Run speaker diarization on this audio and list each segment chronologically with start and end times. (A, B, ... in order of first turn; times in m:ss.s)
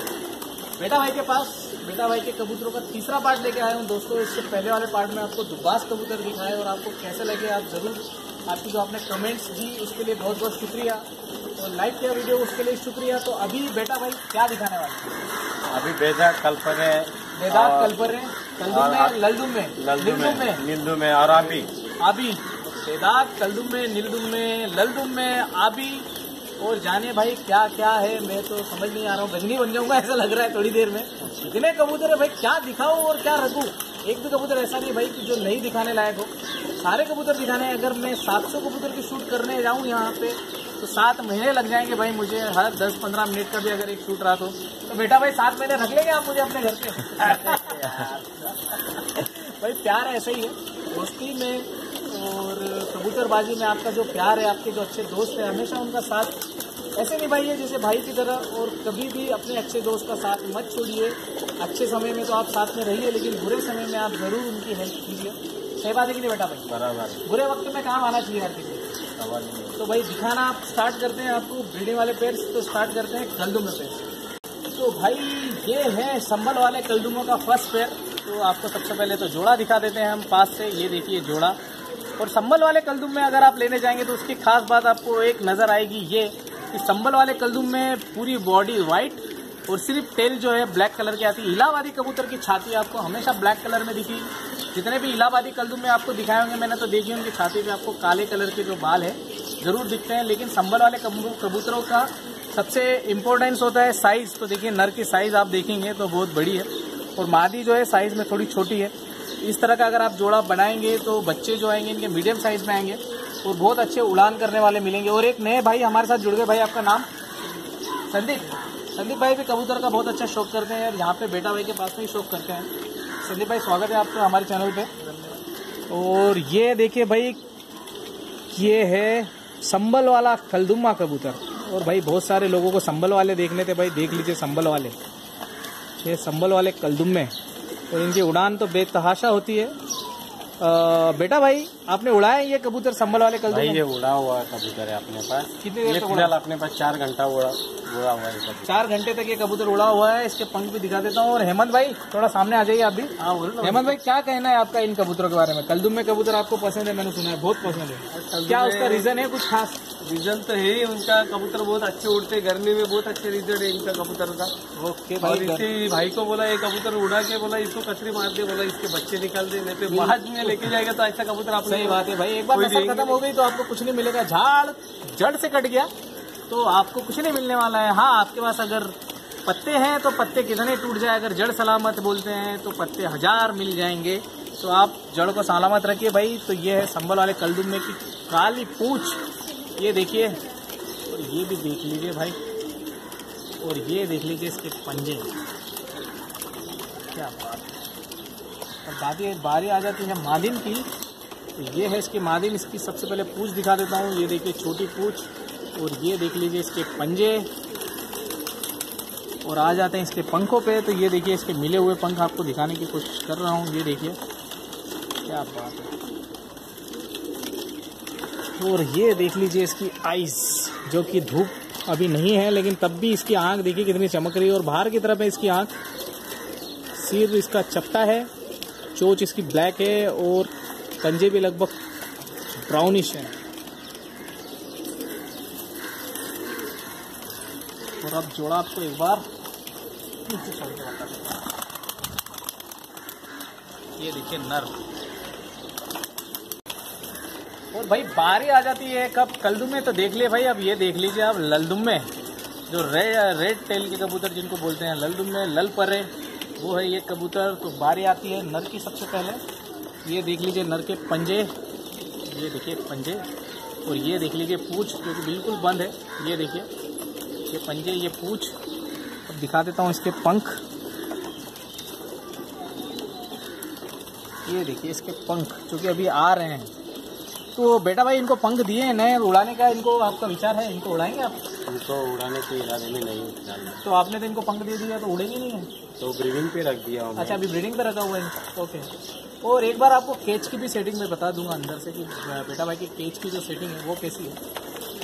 0:00.8-0:11.0 A
0:11.6-0:15.1 A
0:15.7-0:18.0 B
0:17.4-0:20.6 A
0:18.7-0:19.2 B
0:19.7-0:21.7 B
0:22.0-0:26.1 A
0:26.6-0:56.4 A
0:47.4-0:48.2 B
0:57.0-1:08.9 A
1:06.7-1:07.2 B
1:09.2-1:09.8 B
1:09.8-1:14.1 A
1:14.7-1:21.6 A
1:22.2-1:57.1 A
1:58.1-2:02.7 A
2:03.2-2:04.9 A
2:05.9-2:07.4 A
2:08.5-2:15.0 A
2:16.0-2:17.3 A
2:17.9-2:19.7 A
2:20.6-2:23.8 A
2:23.5-2:28.8 B
2:25.6-2:26.3 A
2:28.7-2:39.8 A
2:33.3-2:33.7 B
2:33.3-2:33.8 C
2:38.2-2:39.1 C
2:38.5-2:38.8 B
2:40.0-2:44.5 C
2:41.8-2:44.4 B
2:44.8-2:45.7 A
2:45.2-2:53.1 C
2:45.4-2:45.6 B
2:46.2-2:47.4 B
2:48.0-2:48.2 B
2:48.8-2:49.2 B
2:49.9-2:50.7 A
2:50.0-2:51.4 B
2:51.6-2:55.9 A
2:56.5-3:09.2 A
3:09.8-3:10.4 A
3:11.1-3:12.4 A
3:13.6-3:15.3 A
3:17.1-3:17.8 A
3:18.8-3:20.9 A
3:21.6-3:27.5 A
3:29.4-3:34.2 A
3:35.2-3:35.9 A
3:38.6-3:45.8 A
3:47.0-3:48.3 A
3:48.9-3:51.8 A
3:52.5-3:53.3 A
3:58.0-3:59.3 A
4:00.3-4:01.3 A
4:04.0-4:04.8 A
4:07.7-4:12.1 A
4:12.7-4:19.4 A
4:20.0-4:21.5 A
4:22.3-4:23.2 A
4:23.8-4:26.7 A
4:27.5-4:28.6 A
4:29.2-4:30.6 A
4:34.4-4:36.7 A
4:37.5-4:41.4 A
4:41.7-4:43.8 B
4:43.8-4:45.7 A
4:46.0-4:47.4 B
4:47.2-4:48.9 A
4:49.4-4:54.4 A